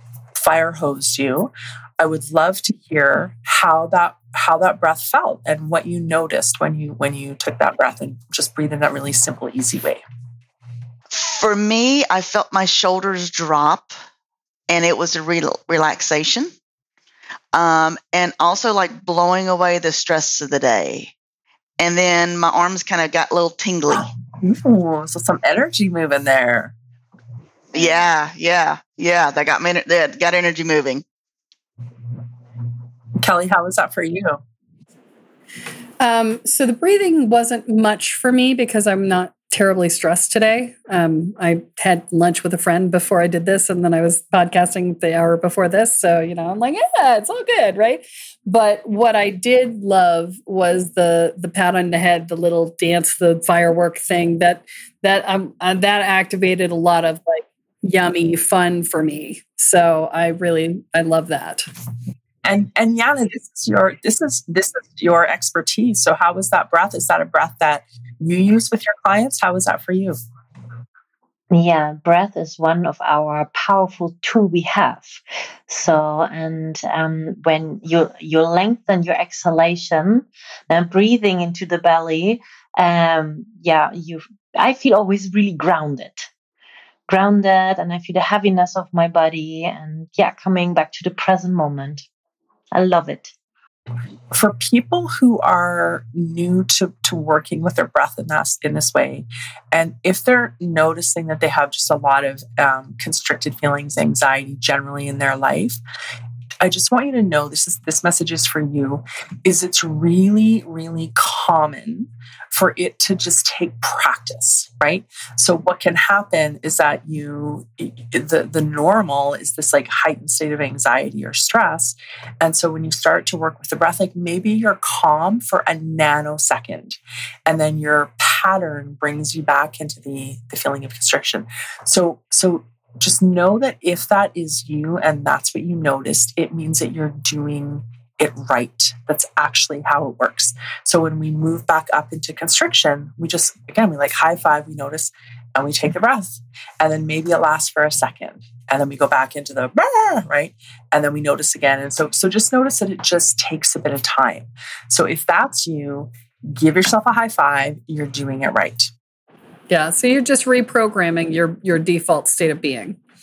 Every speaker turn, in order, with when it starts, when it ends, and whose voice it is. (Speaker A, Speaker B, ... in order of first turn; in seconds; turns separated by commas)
Speaker A: 0.3-10.0, Speaker B: 11.1-13.9, Speaker B: 14.7-16.5, Speaker B: 17.5-21.1, Speaker B: 21.8-24.1, Speaker A: 24.4-26.7, Speaker B: 27.7-31.0, Speaker A: 33.2-34.4, Speaker C: 36.0-61.6, Speaker A: 62.4-70.2, Speaker D: 71.5-86.3, Speaker D: 87.1-92.0, Speaker D: 92.7-93.3, Speaker A: 94.3-105.8, Speaker A: 106.6-158.9, Speaker C: 159.7-163.0